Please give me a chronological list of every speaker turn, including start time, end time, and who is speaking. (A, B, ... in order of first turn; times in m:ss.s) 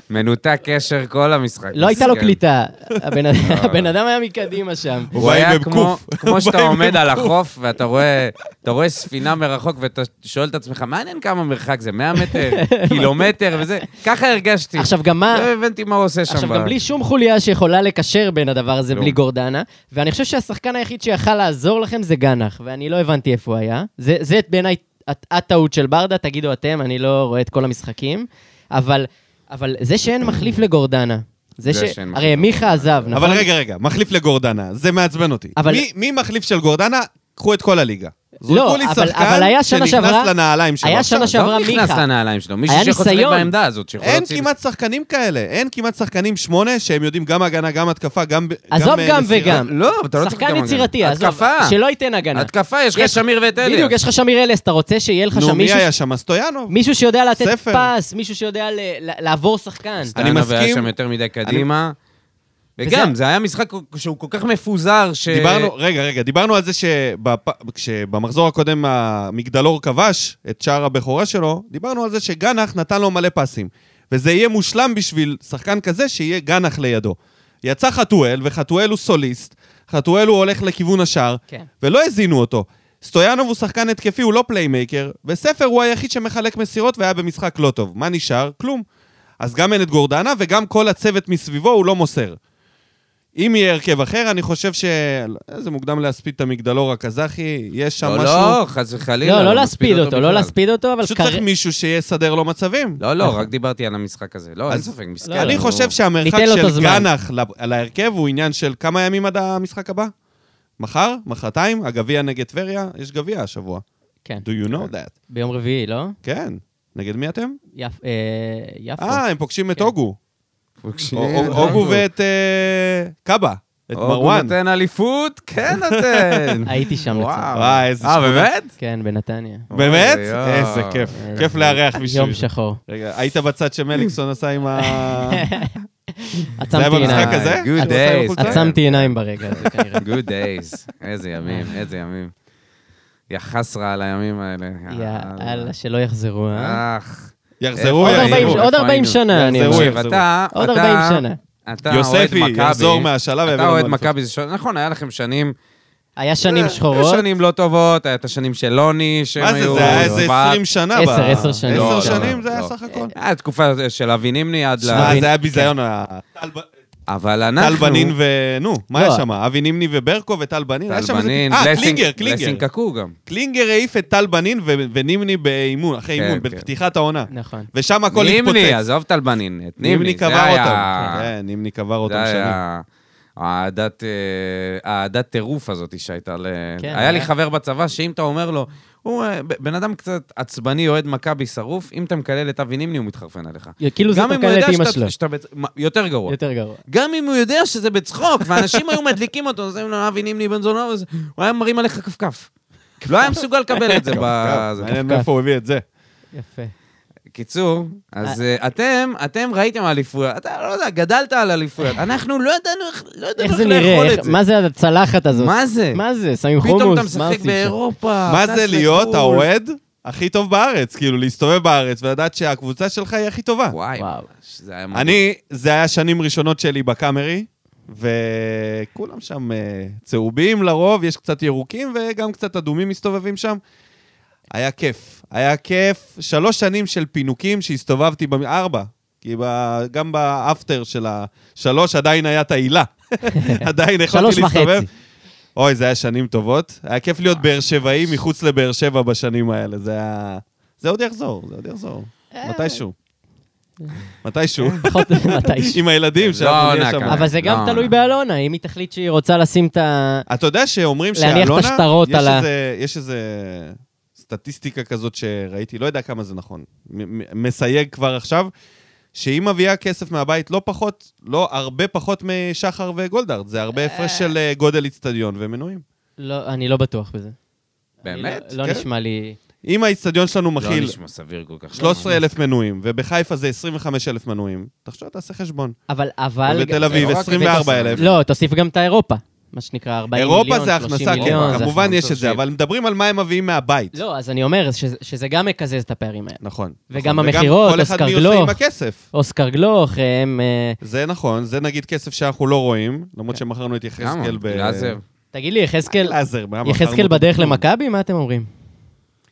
0:00.1-0:02.4 A
0:01.7-0:05.1 B
0:03.4-0:03.9 A
0:05.1-0:07.3 C
0:05.2-0:16.7 A
0:12.3-0:13.3 B
0:14.8-0:15.5 B
0:16.3-0:33.5 B
0:18.9-0:19.2 A
0:31.6-0:33.2 A
0:33.1-0:41.3 C
0:35.6-0:35.8 B
0:38.5-0:40.3 B
0:40.8-0:42.0 B
0:41.2-0:44.5 A
0:42.7-0:43.5 B
0:44.0-0:49.6 C
0:48.7-0:55.9 B
0:49.4-0:51.8 A
0:52.3-0:54.0 A
0:55.3-0:56.7 C
0:56.7-1:00.2 B
0:57.4-0:57.9 C
1:00.2-1:00.9 C
1:00.2-1:02.0 A
1:02.8-1:05.7 A
1:02.8-1:03.1 B
1:05.3-1:28.8 C
1:29.4-1:32.4 C
1:33.4-1:38.6 C
1:38.0-1:40.5 A
1:39.2-1:41.4 B
1:41.0-1:43.0 C
1:43.0-1:46.0 A
1:43.2-1:43.5 B
1:44.7-1:50.1 C
1:45.2-1:45.6 B
1:46.2-1:47.1 B
1:50.8-1:53.8 C
1:54.4-1:55.1 C
1:55.3-1:56.2 B
1:56.2-1:57.6 C
1:57.8-1:59.2 B
1:59.0-2:00.2 C
2:00.8-2:02.0 A
2:01.1-2:04.6 C
2:01.5-2:01.9 B
2:04.0-2:08.7 A
2:05.7-2:06.6 C
2:06.7-2:07.6 B
2:07.5-2:08.5 C
2:08.8-2:09.7 B
2:09.7-2:11.8 A
2:09.7-2:15.5 C
2:11.2-2:12.8 B
2:14.8-2:20.1 B
2:16.7-2:18.7 C
2:17.0-2:22.3 A
2:21.4-2:21.8 B
2:23.3-2:25.7 A
2:24.9-2:26.8 B
2:26.5-2:35.5 A
2:27.6-2:28.6 C
2:28.0-2:30.0 B
2:29.3-2:30.2 C
2:30.5-2:31.4 B
2:31.9-2:34.1 C
2:36.2-2:37.2 B
2:36.4-2:40.6 A
2:39.4-2:43.1 C
2:39.7-2:40.3 B
2:41.0-2:42.4 B
2:41.2-2:45.2 A
2:44.8-2:46.7 C
2:44.9-2:45.7 B
2:47.1-2:48.2 A
2:47.6-2:52.6 C
2:48.9-2:49.2 B
2:50.9-2:53.2 A
2:53.3-2:58.8 C
2:56.2-2:56.7 A
2:57.3-2:57.7 B
2:58.1-3:01.3 A
2:59.8-3:02.6 C
3:02.1-3:02.8 A
3:03.4-3:16.4 A
3:06.8-3:07.3 B
3:13.8-3:15.1 B
3:16.3-3:16.8 B
3:16.9-3:22.5 A
3:23.0-3:25.0 A
3:24.0-3:25.8 C
3:24.9-3:25.3 B
3:26.3-3:26.7 B
3:27.3-3:34.4 A
3:33.4-3:37.8 B
3:35.3-3:36.0 A
3:36.6-3:39.5 A
3:38.3-3:43.8 C
3:43.7-3:45.2 A
3:44.0-3:44.3 B
3:44.9-3:53.6 C
3:54.5-4:04.9 C
4:03.4-4:04.9 B
4:05.6-4:12.9 C
4:12.3-4:12.8 B
4:14.2-4:17.3 C
4:14.8-4:15.8 B
4:16.2-4:17.9 A
4:17.1-4:20.3 B
4:20.3-4:28.5 C
4:21.2-4:22.5 B
4:29.1-4:35.8 C
4:33.8-4:34.3 A
4:36.2-4:37.4 B
4:38.0-4:39.4 B
4:38.0-4:38.5 A
4:39.6-4:41.0 C
4:40.6-4:42.2 A
4:41.7-4:45.8 C
4:45.9-4:51.8 B
4:46.5-4:48.1 C
4:46.9-4:48.2 A
4:50.1-4:54.0 C
4:51.1-4:52.4 A
4:53.9-4:56.4 B
4:56.4-4:59.0 C
4:56.9-4:58.6 B
4:59.1-5:00.8 B
5:00.8-5:05.0 C
5:04.0-5:05.0 A
5:05.3-5:08.5 B
5:05.9-5:07.6 C